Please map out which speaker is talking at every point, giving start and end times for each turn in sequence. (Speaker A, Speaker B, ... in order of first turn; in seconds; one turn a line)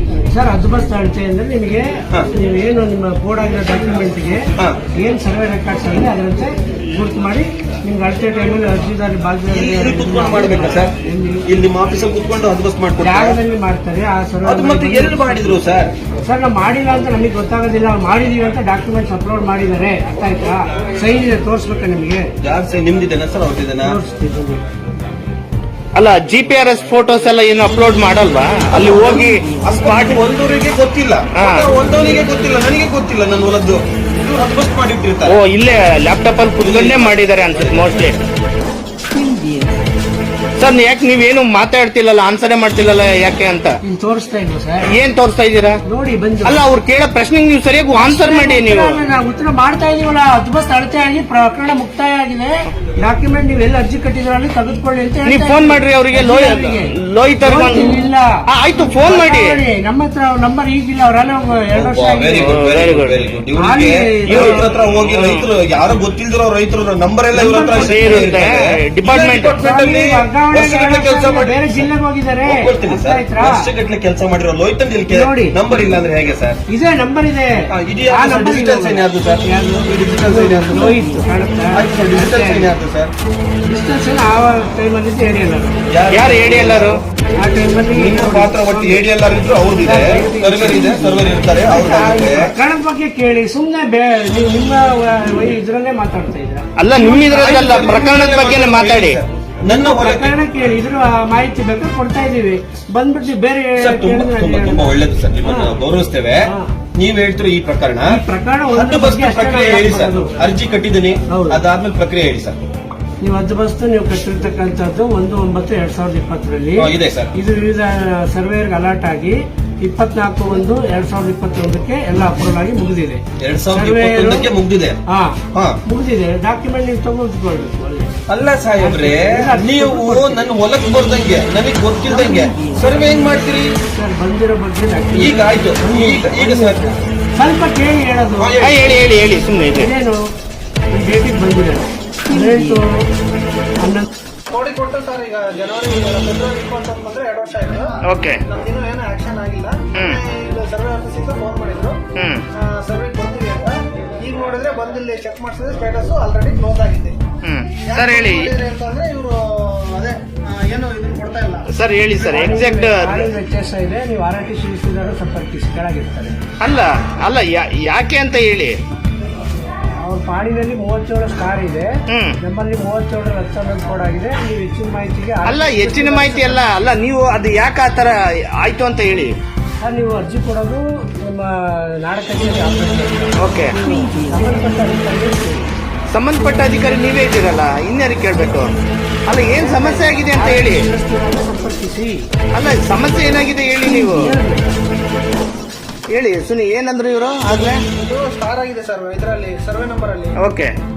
Speaker A: 0.2-4.4
Speaker A: 5.0-11.4
Speaker B: 9.5-10.9
Speaker B: 11.4-13.4
Speaker A: 13.0-15.6
Speaker B: 14.4-15.9
Speaker A: 16.2-22.3
Speaker B: 22.4-24.0
Speaker A: 23.8-24.6
Speaker C: 25.9-30.2
Speaker B: 28.7-35.4
Speaker C: 31.4-31.7
Speaker C: 35.2-38.2
Speaker B: 36.6-38.2
Speaker C: 40.6-43.7
Speaker A: 43.8-44.9
Speaker C: 44.9-45.8
Speaker A: 45.8-46.6
Speaker C: 46.4-49.0
Speaker A: 47.9-58.3
Speaker C: 55.2-59.6
Speaker A: 59.0-62.5
Speaker B: 61.7-71.9
Speaker C: 62.4-63.2
Speaker A: 63.6-64.6
Speaker C: 64.3-65.5
Speaker A: 67.3-68.4
Speaker C: 67.8-69.6
Speaker A: 69.6-73.6
Speaker B: 72.4-76.6
Speaker A: 75.1-75.6
Speaker A: 76.7-82.7
Speaker B: 77.7-81.0
Speaker B: 81.7-83.1
Speaker A: 83.6-85.9
Speaker B: 85.9-87.0
Speaker C: 86.1-87.0
Speaker A: 87.4-89.0
Speaker B: 87.9-92.5
Speaker A: 89.8-96.7
Speaker C: 96.8-99.2
Speaker B: 96.9-100.3
Speaker A: 99.7-105.8
Speaker B: 103.8-106.4
Speaker A: 106.4-106.7
Speaker B: 107.0-108.2
Speaker A: 108.1-110.3
Speaker B: 108.7-112.6
Speaker A: 111.3-111.6
Speaker A: 113.2-124.5
Speaker B: 116.8-117.3
Speaker B: 123.4-125.0
Speaker A: 125.1-128.1
Speaker B: 128.3-133.7
Speaker A: 128.8-130.5
Speaker A: 133.9-138.6
Speaker B: 135.1-136.8
Speaker B: 138.4-138.9
Speaker C: 138.6-139.9
Speaker A: 139.8-140.2
Speaker A: 140.9-143.0
Speaker A: 143.8-144.1
Speaker D: 144.5-147.9
Speaker C: 148.1-148.4
Speaker D: 148.5-152.0
Speaker C: 149.9-150.2
Speaker C: 152.2-152.4
Speaker D: 152.5-157.2
Speaker C: 157.4-158.5
Speaker D: 157.9-161.6
Speaker C: 161.7-163.3
Speaker A: 162.2-166.3
Speaker C: 166.6-168.8
Speaker A: 170.0-171.9
Speaker C: 172.1-172.3
Speaker A: 172.4-176.6
Speaker C: 175.4-179.3
Speaker A: 179.8-185.7
Speaker C: 183.4-183.7
Speaker C: 186.1-188.7
Speaker C: 189.3-190.8
Speaker A: 189.6-192.2
Speaker C: 192.5-194.3
Speaker A: 193.9-194.8
Speaker C: 196.1-197.8
Speaker D: 198.0-200.3
Speaker C: 200.4-200.7